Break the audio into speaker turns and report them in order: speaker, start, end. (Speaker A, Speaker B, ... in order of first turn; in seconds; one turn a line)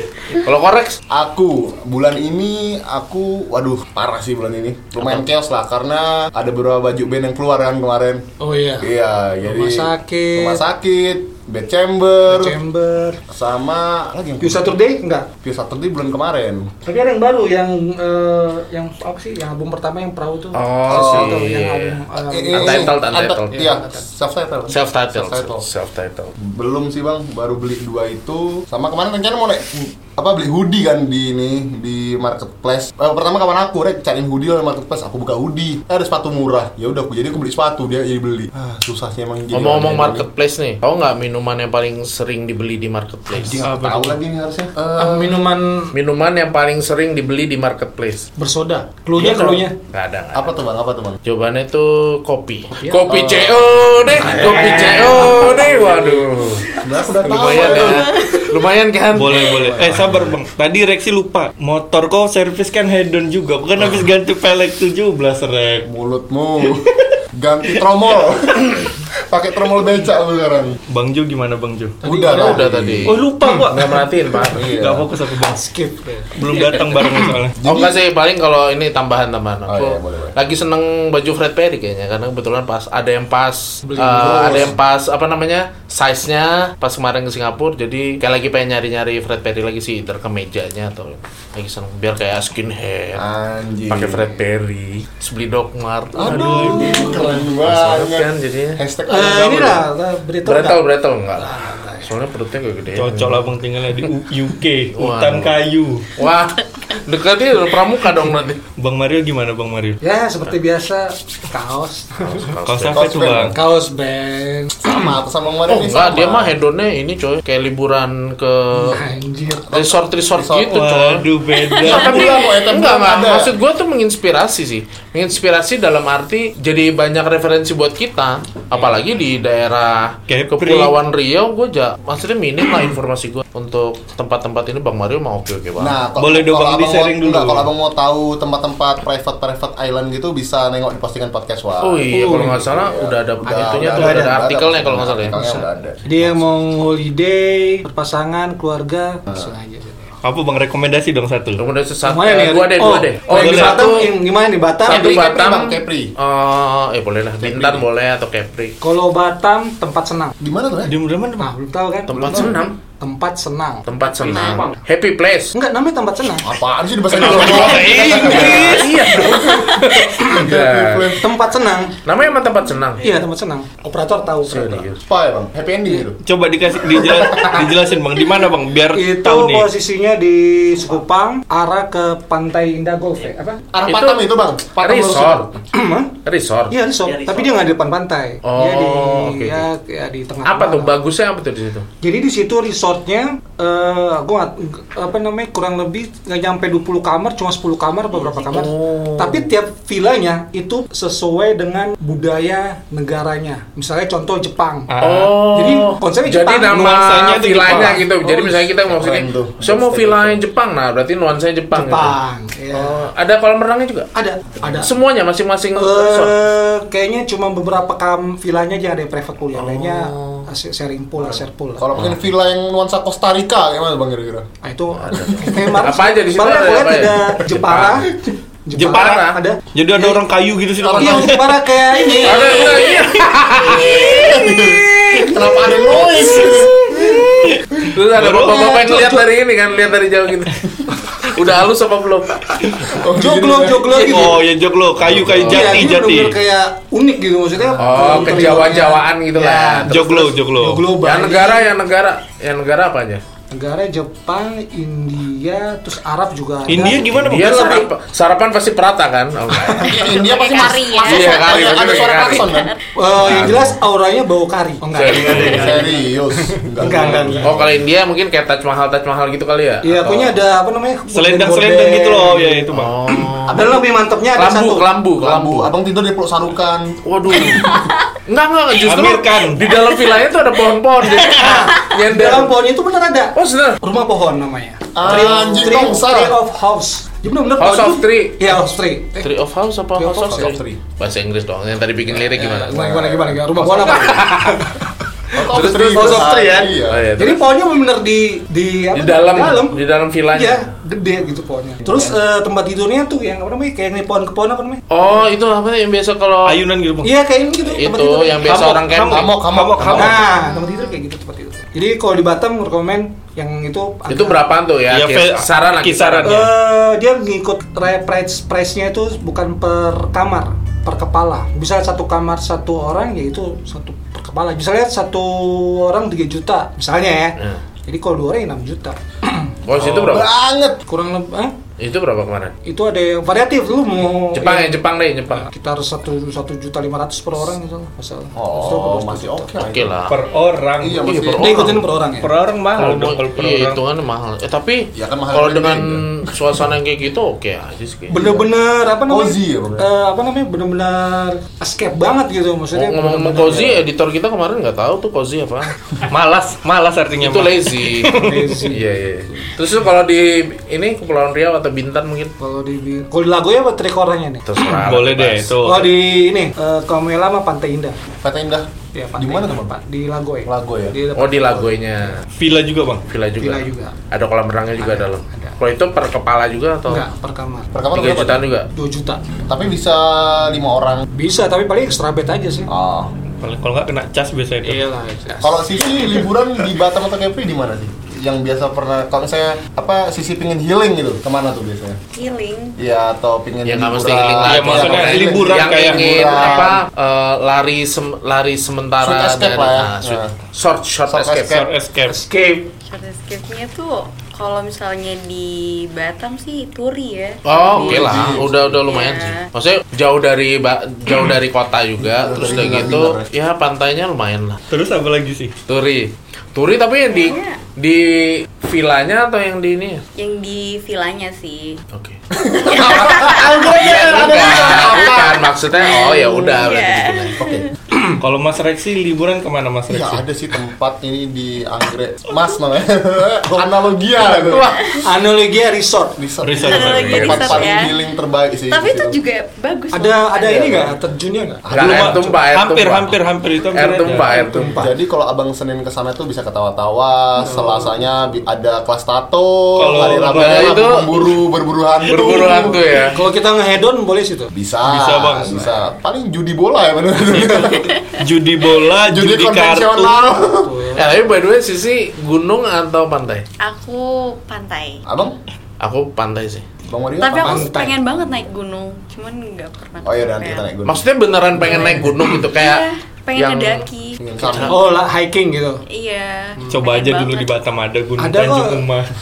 Speaker A: 0.4-1.0
Speaker B: 1.1-8.2
Speaker C: 8.4-8.9
Speaker B: 8.8-12.6
Speaker C: 9.4-10.6
Speaker C: 12.3-13.2
Speaker B: 13.3-14.8
Speaker C: 14.4-15.3
Speaker B: 15.4-16.7
Speaker C: 16.8-22.9
Speaker A: 20.5-22.0
Speaker B: 20.9-21.4
Speaker B: 22.3-25.6
Speaker A: 22.5-23.8
Speaker C: 23.5-24.0
Speaker A: 24.7-26.4
Speaker B: 26.4-40.3
Speaker A: 39.5-43.6
Speaker B: 43.4-45.4
Speaker D: 43.5-44.1
Speaker C: 45.0-45.9
Speaker A: 45.9-48.3
Speaker C: 48.4-49.8
Speaker A: 49.2-50.5
Speaker B: 50.3-51.2
Speaker A: 51.2-56.7
Speaker C: 52.7-53.1
Speaker B: 53.1-53.7
Speaker C: 54.2-56.4
Speaker B: 54.2-55.7
Speaker B: 56.8-58.3
Speaker A: 57.2-60.0
Speaker E: 57.8-58.3
Speaker D: 59.1-65.9
Speaker B: 59.3-60.3
Speaker B: 65.8-70.8
Speaker D: 66.7-67.0
Speaker D: 70.9-72.0
Speaker C: 72.0-72.6
Speaker B: 72.0-73.1
Speaker A: 72.2-74.6
Speaker D: 73.0-74.0
Speaker C: 73.4-73.7
Speaker B: 74.5-75.1
Speaker D: 74.6-75.6
Speaker C: 75.4-77.3
Speaker D: 76.3-77.6
Speaker B: 77.6-78.0
Speaker A: 77.6-93.2
Speaker B: 79.7-80.3
Speaker C: 83.8-84.8
Speaker B: 93.1-94.3
Speaker A: 93.9-98.8
Speaker B: 96.2-99.8
Speaker D: 96.2-97.2
Speaker C: 96.8-97.1
Speaker C: 99.1-100.8
Speaker A: 100.4-103.5
Speaker C: 101.4-102.1
Speaker D: 102.9-106.1
Speaker A: 104.9-105.5
Speaker A: 106.2-108.6
Speaker D: 108.8-110.0
Speaker C: 110.0-112.5
Speaker A: 112.2-113.1
Speaker D: 112.6-113.6
Speaker B: 112.9-113.6
Speaker C: 113.5-115.1
Speaker B: 114.8-116.6
Speaker A: 115.7-119.0
Speaker C: 118.8-119.7
Speaker B: 119.7-120.8
Speaker A: 119.7-121.3
Speaker D: 120.6-122.3
Speaker E: 121.5-122.6
Speaker B: 121.8-123.5
Speaker A: 121.8-136.0
Speaker D: 130.3-130.9
Speaker B: 135.8-146.4
Speaker D: 136.2-137.7
Speaker A: 141.8-145.4
Speaker C: 142.1-142.5
Speaker C: 143.9-144.3
Speaker C: 145.3-150.1
Speaker D: 150.2-151.6
Speaker A: 151.6-154.1
Speaker C: 152.0-155.1
Speaker D: 153.3-153.8
Speaker A: 154.8-158.8
Speaker B: 154.9-156.1
Speaker B: 157.4-157.8
Speaker C: 158.8-160.3
Speaker B: 160.4-160.9
Speaker D: 160.8-161.5
Speaker C: 161.4-164.8
Speaker A: 162.1-162.7
Speaker B: 162.2-162.6
Speaker A: 163.8-165.5
Speaker E: 164.2-164.7
Speaker C: 165.5-166.5
Speaker B: 166.4-171.3
Speaker A: 167.1-171.2
Speaker C: 167.2-169.5
Speaker D: 167.8-168.8
Speaker C: 171.2-171.9
Speaker A: 172.0-173.0
Speaker C: 173.0-174.8
Speaker A: 174.4-175.0
Speaker B: 175.0-176.2
Speaker D: 176.2-179.7
Speaker C: 178.9-183.6
Speaker B: 183.7-185.5
Speaker A: 183.8-184.2
Speaker A: 184.8-185.5
Speaker C: 185.7-186.1
Speaker A: 186.2-186.8
Speaker C: 186.7-191.0
Speaker A: 188.4-189.6
Speaker A: 190.4-191.9
Speaker C: 192.0-204.9
Speaker A: 198.2-199.5
Speaker D: 204.9-205.3
Speaker A: 205.0-212.1
Speaker C: 205.5-208.0
Speaker D: 206.7-208.1
Speaker B: 208.2-210.4
Speaker C: 211.7-213.1
Speaker A: 212.7-214.1
Speaker C: 214.1-214.9
Speaker A: 214.7-216.3
Speaker C: 215.8-221.9
Speaker A: 219.5-220.5
Speaker B: 221.8-224.4
Speaker C: 224.6-228.1
Speaker A: 224.9-228.1
Speaker B: 225.1-225.8
Speaker C: 228.7-230.2
Speaker D: 228.7-231.7
Speaker A: 228.8-229.4
Speaker B: 230.8-231.3
Speaker C: 231.0-232.8
Speaker B: 232.0-232.8
Speaker A: 232.2-234.4
Speaker B: 233.5-237.3
Speaker A: 235.2-236.7
Speaker D: 236.5-238.9
Speaker A: 237.9-240.6
Speaker C: 238.5-239.2
Speaker A: 241.2-242.6
Speaker B: 242.9-244.2
Speaker C: 243.1-244.4
Speaker D: 244.0-246.4
Speaker A: 245.0-245.9
Speaker C: 245.4-251.7
Speaker A: 247.8-250.3
Speaker D: 249.8-250.9
Speaker A: 251.0-253.2
Speaker C: 253.5-257.9
Speaker D: 256.7-257.7
Speaker A: 257.2-260.1
Speaker B: 259.8-262.7
Speaker E: 259.9-262.8
Speaker A: 261.0-262.5
Speaker C: 262.9-267.5
Speaker A: 263.1-263.7
Speaker A: 264.9-265.8
Speaker B: 265.1-267.8
Speaker A: 267.4-270.4
Speaker C: 269.8-272.7
Speaker D: 271.1-272.9
Speaker A: 272.7-273.8
Speaker C: 273.4-274.9
Speaker A: 274.3-275.7
Speaker B: 275.2-277.9
Speaker A: 277.0-277.7
Speaker A: 278.3-282.5
Speaker D: 278.8-279.7
Speaker C: 281.3-289.3
Speaker A: 283.3-283.8
Speaker B: 284.9-286.3
Speaker A: 285.1-285.9
Speaker A: 287.6-288.6
Speaker A: 289.2-292.9
Speaker C: 290.0-290.5
Speaker B: 290.3-290.8
Speaker C: 292.1-299.8
Speaker B: 292.7-293.7
Speaker A: 293.6-294.7
Speaker B: 295.3-297.1
Speaker A: 295.4-297.4
Speaker A: 298.9-300.7
Speaker C: 300.3-304.8
Speaker B: 301.8-302.2
Speaker A: 304.9-306.6
Speaker D: 306.4-307.1
Speaker C: 307.0-308.8
Speaker A: 307.6-309.3
Speaker D: 308.5-310.2
Speaker B: 309.1-310.2
Speaker C: 309.9-314.4
Speaker E: 310.2-311.0
Speaker A: 314.1-316.4
Speaker D: 314.9-316.5
Speaker C: 316.2-329.6
Speaker A: 329.6-330.3
Speaker B: 329.8-330.8
Speaker C: 330.9-331.5
Speaker A: 331.8-332.5
Speaker C: 332.6-339.5
Speaker A: 334.3-335.5
Speaker B: 338.3-340.0
Speaker A: 339.6-340.2
Speaker D: 340.1-341.0
Speaker B: 340.8-341.5
Speaker A: 340.9-341.8
Speaker C: 341.4-342.3
Speaker D: 342.2-343.8
Speaker A: 342.8-348.2
Speaker B: 344.9-346.1
Speaker C: 348.1-353.7
Speaker B: 348.1-348.5
Speaker B: 349.1-349.9
Speaker A: 352.7-355.8
Speaker B: 353.4-353.8
Speaker D: 356.1-358.6
Speaker A: 357.2-362.3
Speaker C: 358.1-359.5
Speaker C: 362.4-364.4
Speaker A: 364.4-365.5
Speaker D: 364.7-365.9
Speaker C: 365.6-368.0
Speaker B: 368.2-369.7
Speaker C: 368.9-372.1
Speaker B: 370.4-371.0
Speaker A: 371.1-372.2
Speaker D: 372.4-373.0
Speaker A: 373.1-377.1
Speaker C: 373.4-373.9
Speaker C: 374.8-375.6
Speaker C: 376.9-377.7
Speaker B: 377.7-378.4
Speaker A: 377.9-378.7
Speaker C: 378.7-379.2
Speaker B: 379.5-381.0
Speaker C: 381.1-382.7
Speaker B: 382.7-383.1
Speaker D: 383.4-384.8
Speaker C: 384.6-385.7
Speaker B: 385.4-392.0
Speaker E: 392.1-392.8
Speaker B: 392.8-396.8
Speaker A: 393.6-401.6
Speaker D: 394.4-396.2
Speaker E: 396.2-396.7
Speaker B: 399.0-400.3
Speaker B: 401.1-401.7
Speaker D: 401.5-402.2
Speaker C: 402.1-402.7
Speaker E: 402.8-409.4
Speaker A: 407.4-414.6
Speaker B: 407.7-408.7
Speaker B: 412.0-413.3
Speaker D: 414.7-415.5
Speaker A: 415.7-420.0
Speaker E: 417.1-417.6
Speaker E: 420.1-421.8
Speaker A: 421.9-422.2
Speaker B: 422.3-425.4
Speaker E: 422.6-427.7
Speaker A: 422.8-427.4
Speaker B: 427.4-427.7
Speaker D: 428.2-430.2
Speaker B: 429.9-434.7
Speaker A: 434.2-435.0
Speaker E: 434.5-435.0
Speaker C: 435.0-436.2
Speaker B: 436.2-439.2
Speaker D: 436.4-437.8
Speaker E: 436.6-438.0
Speaker A: 437.0-437.3
Speaker E: 438.7-440.8
Speaker C: 439.9-441.6
Speaker B: 440.4-440.9
Speaker B: 441.6-442.3
Speaker A: 441.7-443.2
Speaker D: 441.7-444.4
Speaker A: 443.7-444.8
Speaker C: 444.1-444.9
Speaker B: 444.8-452.8
Speaker C: 447.4-448.0
Speaker D: 449.8-450.8
Speaker A: 450.3-451.3
Speaker A: 452.1-453.2
Speaker C: 453.1-454.5
Speaker B: 454.5-457.9
Speaker D: 454.8-455.6
Speaker C: 455.4-455.8
Speaker E: 457.7-458.2
Speaker D: 458.2-460.3
Speaker B: 459.0-460.7
Speaker C: 460.5-461.1
Speaker A: 460.9-463.4
Speaker E: 463.6-465.0
Speaker B: 465.1-465.4
Speaker A: 465.8-466.6
Speaker B: 466.9-467.7
Speaker E: 467.2-470.7
Speaker C: 467.4-468.0
Speaker B: 470.0-471.0
Speaker A: 470.9-473.9
Speaker C: 471.6-471.9
Speaker E: 471.6-474.7
Speaker B: 474.2-474.8
Speaker A: 474.4-474.7
Speaker C: 474.6-475.8
Speaker E: 475.9-477.6
Speaker D: 476.7-479.1
Speaker C: 478.2-478.8